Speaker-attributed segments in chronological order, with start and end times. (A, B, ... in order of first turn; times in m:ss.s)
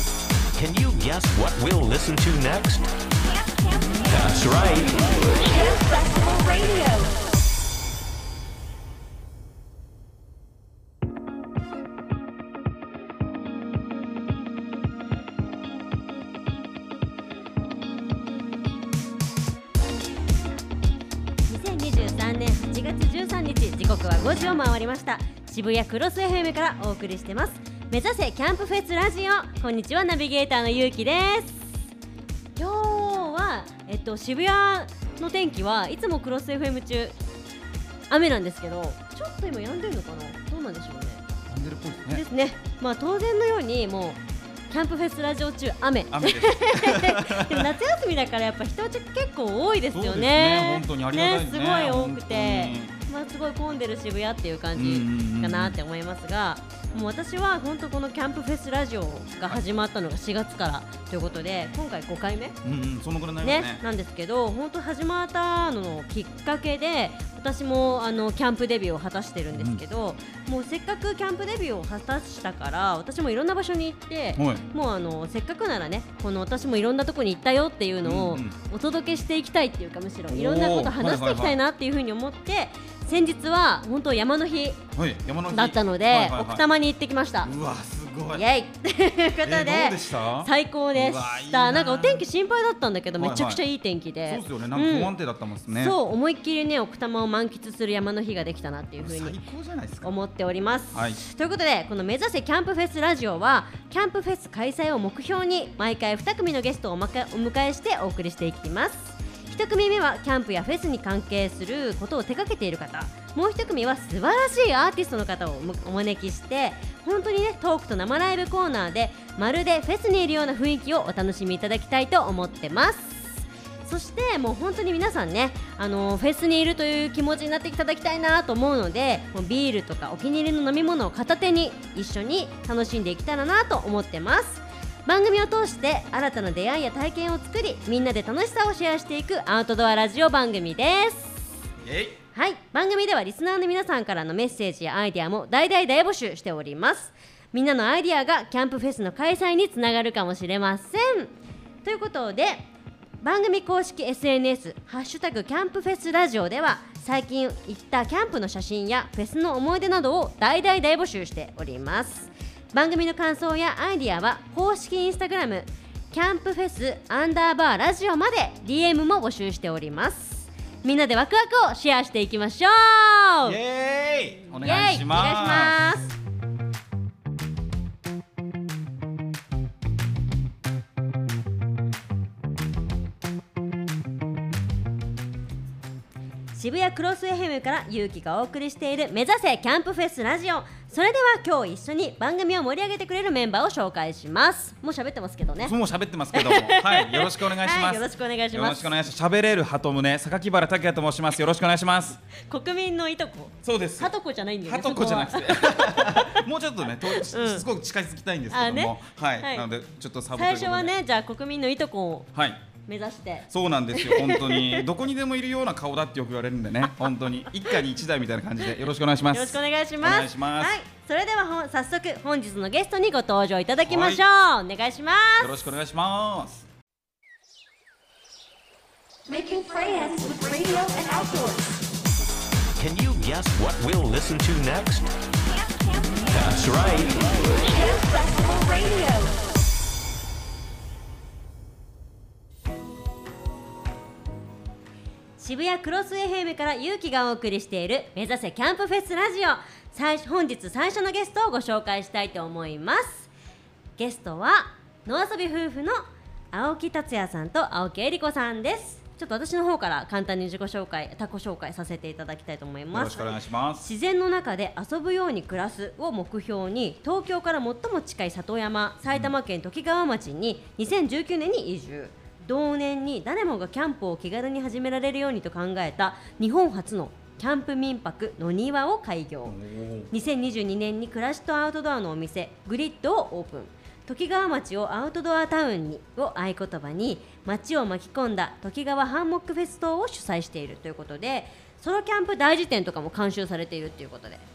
0:00.5-0:02.8 A
0:03.2-0:04.3 B
0:04.0-0:05.2 A
0:05.3-0:07.2 B
0:21.5-0:31.8 C
0:32.6-0:37.1 C
0:38.1-0:41.2 C
0:41.5-0:42.2 D
0:42.1-1:02.6 C
0:46.1-0:47.7 D
0:49.9-0:52.9 D
0:54.7-0:55.8 D
1:02.6-1:03.8 D
1:03.4-1:24.8 C
1:09.5-1:09.8 D
1:14.4-1:14.6 D
1:18.0-1:18.6 D
1:20.3-1:21.6 D
1:25.0-1:26.6 D
1:25.5-1:27.5 C
1:27.4-1:28.4 D
1:28.3-1:35.1 C
1:29.4-1:32.2 D
1:33.2-1:33.6 D
1:34.2-1:36.0 D
1:35.8-1:39.4 C
1:39.0-1:40.2 D
1:40.0-2:21.5 C
1:40.9-1:41.2 D
2:21.8-2:22.2 D
2:22.3-2:31.3 C
2:31.8-2:32.6 C
2:33.2-2:53.6 C
2:53.4-2:55.8 D
2:54.6-2:56.1 C
3:06.5-3:15.7 C
3:15.6-3:22.2 D
3:16.3-3:18.9 C
3:22.3-3:26.4 C
3:23.6-3:30.9 D
3:27.0-3:27.6 C
3:28.5-3:29.7 C
3:30.3-3:32.3 C
3:32.3-3:32.7 D
3:32.8-3:34.8 C
3:33.5-3:40.7 D
3:39.3-3:45.5 C
3:43.8-3:44.2 D
3:45.4-3:46.6 D
3:49.3-3:51.8 B
3:52.8-3:55.0 A
3:55.5-3:56.7 B
3:56.3-3:57.4 A
3:57.4-3:59.5 B
4:05.4-4:13.3 C
4:14.0-4:39.6 C
4:22.9-4:23.8 D
4:39.4-4:40.1 D
4:40.1-4:54.4 C